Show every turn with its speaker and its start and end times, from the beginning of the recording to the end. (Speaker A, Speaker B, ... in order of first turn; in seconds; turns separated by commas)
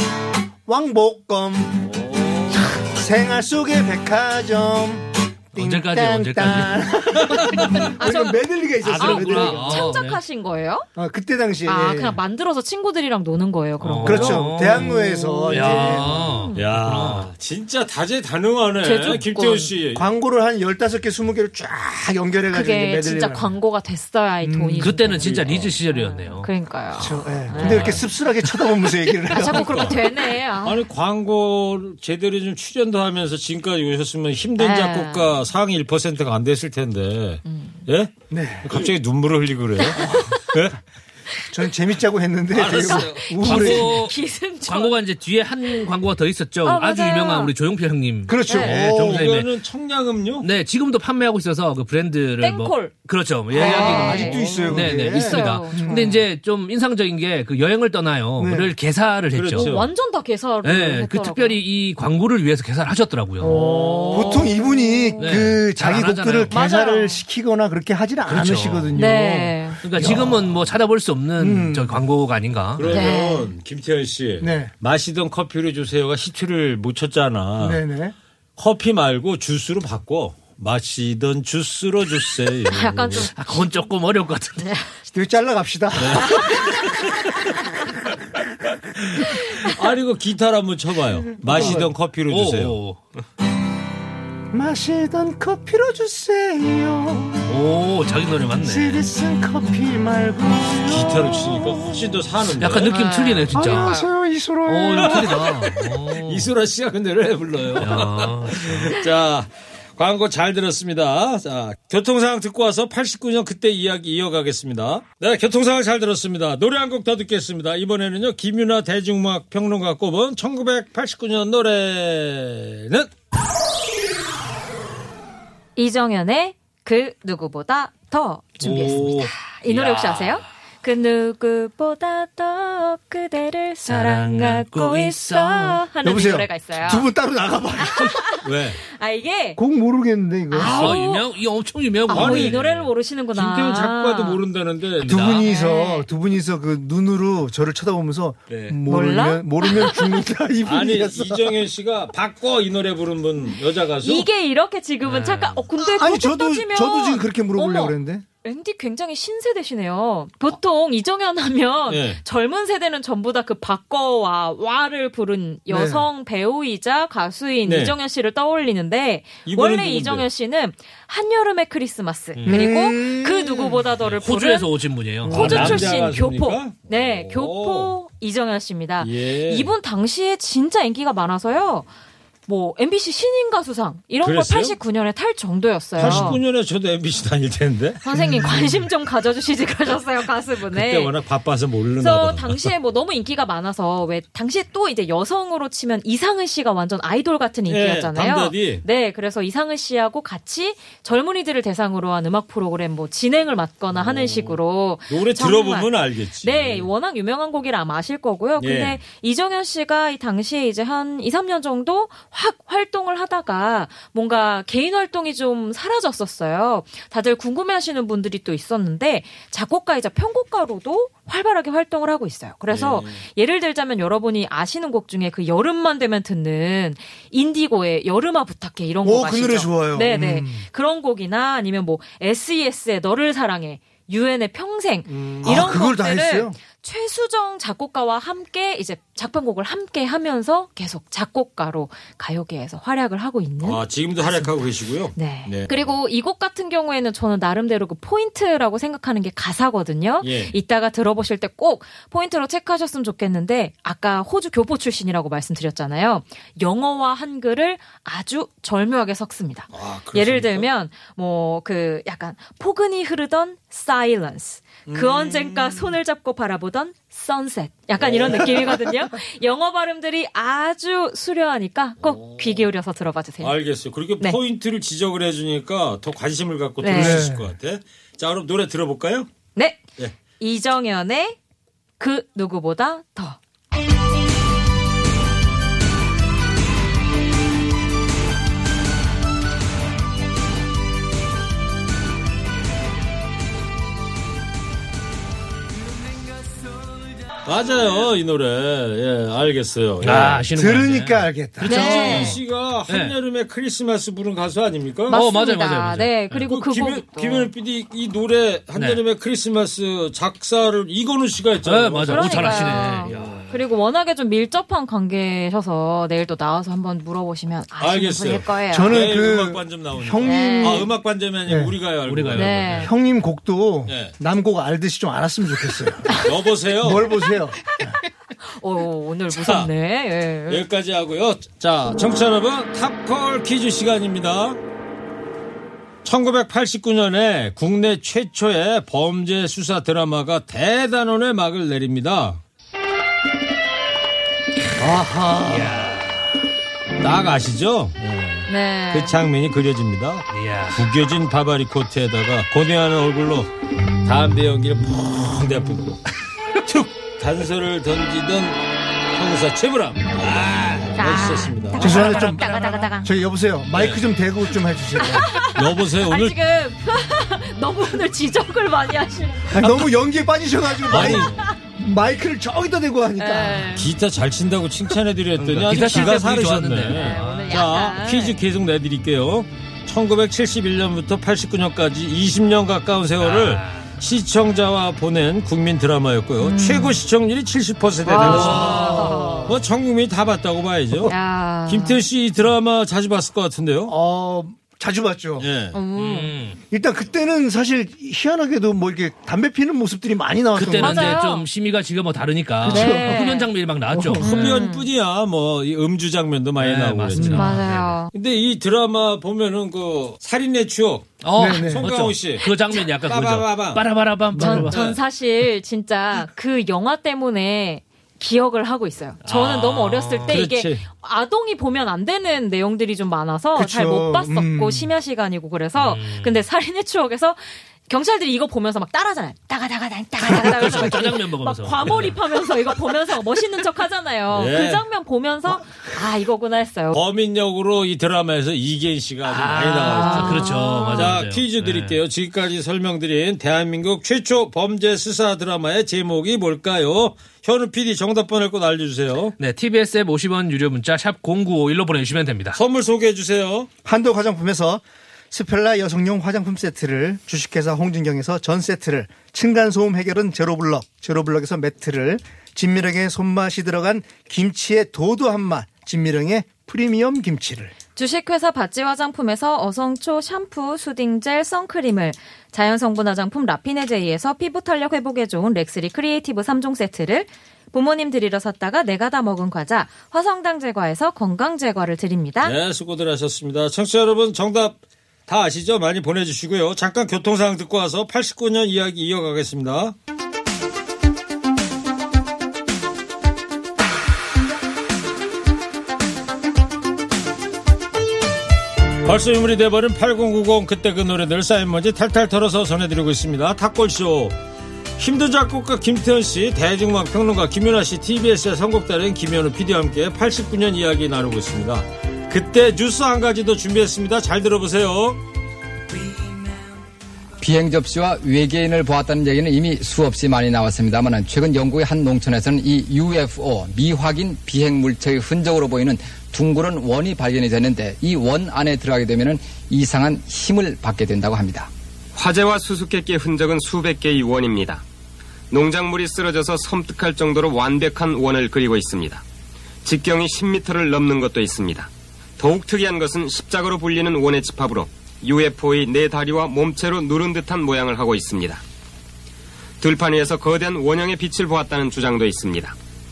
Speaker A: 0.7-1.8, Speaker B: 1.8-2.8, Speaker A: 2.7-9.9, Speaker C: 5.6-6.8, Speaker C: 7.4-7.9, Speaker D: 8.0-8.4, Speaker C: 8.8-10.2, Speaker D: 8.9-10.9, Speaker A: 11.0-12.2, Speaker D: 11.7-16.6, Speaker C: 13.8-17.3, Speaker A: 14.0-16.2, Speaker B: 16.6-20.1, Speaker D: 18.8-19.7, Speaker A: 19.9-23.6, Speaker D: 22.5-28.0, Speaker A: 24.4-25.1, Speaker C: 24.8-26.5, Speaker B: 25.2-25.8, Speaker A: 27.0-29.9, Speaker C: 27.6-27.9, Speaker B: 27.6-27.9, Speaker D: 29.3-30.8, Speaker B: 29.3-38.1, Speaker D: 34.6-35.4, Speaker D: 37.5-37.8, Speaker A: 38.3-38.9, Speaker B: 38.6-40.8, Speaker A: 39.9-40.7, Speaker A: 41.5-44.0, Speaker B: 42.5-43.3, Speaker D: 42.9-45.0, Speaker C: 43.4-49.5, Speaker D: 46.6-47.5, Speaker A: 48.3-49.3, Speaker D: 48.5-48.7, Speaker B: 48.7-50.5, Speaker C: 50.4-59.7, Speaker D: 52.4-52.9, Speaker D: 53.5-56.1, Speaker A: 53.5-56.2, Speaker A: 58.4-58.7, Speaker B: 59.3-59.9, Speaker D: 59.5-61.6, Speaker C: 60.6-64.5, Speaker A: 63.4-70.7, Speaker B: 63.5-64.4, Speaker D: 64.6-65.4, Speaker C: 65.2-66.5, Speaker D: 66.5-67.2, Speaker C: 68.3-69.0, Speaker D: 68.9-69.8, Speaker C: 69.8-73.1, Speaker A: 71.4-72.0, Speaker B: 72.8-77.8, Speaker D: 72.9-73.5, Speaker A: 74.4-74.7, Speaker A: 77.6-78.2, Speaker B: 78.6-83.3, Speaker D: 82.7-83.3, Speaker C: 83.3-84.7, Speaker D: 84.6-84.9, Speaker A: 85.1-86.8, Speaker B: 86.0-86.4, Speaker B: 89.6-92.8, Speaker A: 91.4-91.9, Speaker C: 92.3-93.1, Speaker A: 94.5-97.5, Speaker C: 97.5-99.0, Speaker A: 98.6-102.0, Speaker B: 100.9-103.0, Speaker C: 102.6-104.0, Speaker D: 102.9-104.1, Speaker A: 103.5-105.5, Speaker C: 104.7-106.5, Speaker B: 105.0-123.1, Speaker C: 107.8-108.9, Speaker D: 125.8-137.1, Speaker C: 128.6-130.0, Speaker C: 133.9-135.8, Speaker A: 136.0-138.2, Speaker D: 137.9-139.6, Speaker B: 138.4-138.8, Speaker A: 139.6-141.0, Speaker D: 140.5-141.2, Speaker C: 140.6-142.6, Speaker D: 142.1-144.4, Speaker B: 142.1-145.3, Speaker C: 145.0-145.4, Speaker A: 145.0-151.5, Speaker D: 145.3-146.1, Speaker B: 148.5-148.8, Speaker D: 148.9-150.2, Speaker B: 150.6-154.3, Speaker D: 154.0-174.7, Speaker C: 155.1-155.6, Speaker A: 155.8-158.2, Speaker B: 161.9-162.2, Speaker A: 165.7-166.1, Speaker B: 167.7-167.9, Speaker B: 169.4-170.3, Speaker C: 172.4-172.6, Speaker A: 172.5-173.9, Speaker C: 174.0-176.0, Speaker A: 175.2-175.8, Speaker D: 175.2-181.9, Speaker B: 175.3-177.9, Speaker B: 179.0-179.7, Speaker D: 182.5-186.4, Speaker B: 184.2-184.8, Speaker B: 186.0-188.0, Speaker A: 186.0-186.4, Speaker D: 188.0-191.1, Speaker A: 188.2-188.7, Speaker B: 190.7-192.7, Speaker D: 192.0-244.5, Speaker B: 197.7-198.8, Speaker B: 203.9-206.9, Speaker B: 208.6-209.0, Speaker B: 222.7-223.2, Speaker A: 229.0-230.7, Speaker B: 235.1-235.5, Speaker A: 235.4-236.6, Speaker B: 243.6-245.9, Speaker D: 245.2-273.5, Speaker B: 250.2-250.5, Speaker B: 259.7-260.7, Speaker B: 264.9-265.9, Speaker B: 268.0-268.9, Speaker B: 272.0-272.6, Speaker B: 273.4-279.3, Speaker D: 276.8-277.2, Speaker A: 276.9-277.5, Speaker D: 279.6-279.8, Speaker D: 280.4-281.4, Speaker D: 282.0-283.4, Speaker B: 297.4-300.5, Speaker C: 300.0-303.1, Speaker A: 300.6-302.2, Speaker B: 301.6-305.2, Speaker D: 301.7-302.4, Speaker C: 305.1-306.4, Speaker D: 305.1-307.5, Speaker B: 306.4-313.5, Speaker C: 311.6-313.4, Speaker D: 312.1-319.0, Speaker B: 317.8-322.9, Speaker A: 318.7-320.9, Speaker D: 320.2-320.9, Speaker A: 321.5-321.8, Speaker C: 322.1-322.9, Speaker D: 322.4-322.9, Speaker A: 322.8-326.2, Speaker B: 323.9-324.1, Speaker B: 326.2-327.1, Speaker A: 326.8-327.9, Speaker D: 328.4-330.6, Speaker B: 329.3-329.7, Speaker B: 330.5-334.6, Speaker B: 336.0-342.4, Speaker B: 344.8-345.8, Speaker C: 345.5-346.4, Speaker B: 347.0-353.5, Speaker D: 348.5-349.2, Speaker C: 350.3-350.8, Speaker B: 354.1-356.0, Speaker B: 356.6-358.6, Speaker B: 359.1-362.3, Speaker D: 361.0-363.1, Speaker A: 361.8-365.3, Speaker B: 363.7-364.0, Speaker D: 365.0-369.7, Speaker B: 365.5-366.4, Speaker A: 369.5-373.7, Speaker D: 370.8-371.6, Speaker B: 370.9-371.4, Speaker D: 373.2-373.9, Speaker B: 373.8-391.1, Speaker C: 375.4-377.5, Speaker D: 375.9-376.2, Speaker D: 376.9-378.4, Speaker C: 383.2-383.9, Speaker D: 386.4-387.0, Speaker D: 388.1-389.5, Speaker A: 388.2-389.4, Speaker C: 388.2-389.1, Speaker D: 391.1-392.0, Speaker B: 391.7-393.9, Speaker A: 393.9-395.5, Speaker B: 395.4-395.8, Speaker D: 395.7-396.3, Speaker C: 396.0-396.6, Speaker A: 396.7-401.2, Speaker C: 400.6-404.6, Speaker D: 400.8-401.5, Speaker A: 402.6-403.4, Speaker D: 402.7-403.5, Speaker A: 403.9-404.6, Speaker D: 404.2-404.9, Speaker B: 404.2-407.6, Speaker C: 406.6-408.0, Speaker A: 407.1-407.5, Speaker D: 407.4-408.1, Speaker B: 408.1-414.0, Speaker C: 411.2-414.9, Speaker A: 411.4-411.9, Speaker A: 414.3-414.7, Speaker D: 414.4-437.0, Speaker C: 419.3-420.4, Speaker B: 420.3-420.8, Speaker A: 423.6-424.9, Speaker C: 425.8-426.4, Speaker C: 430.3-432.2, Speaker B: 434.3-434.8, Speaker B: 436.9-449.4, Speaker C: 439.2-442.0, Speaker D: 439.8-441.1, Speaker C: 449.4-452.6, Speaker B: 452.6-453.7, Speaker A: 453.9-467.7, Speaker D: 468.0-482.6, Speaker B: 482.4-489.9, Speaker B: 499.0-504.4, Speaker B: 505.0-515.2, Speaker E: 517.4-531.7, Speaker F: 532.1-534.8, Speaker F: 535.5-539.2, Speaker F: 539.8-548.6, Speaker F: 549.8-552.7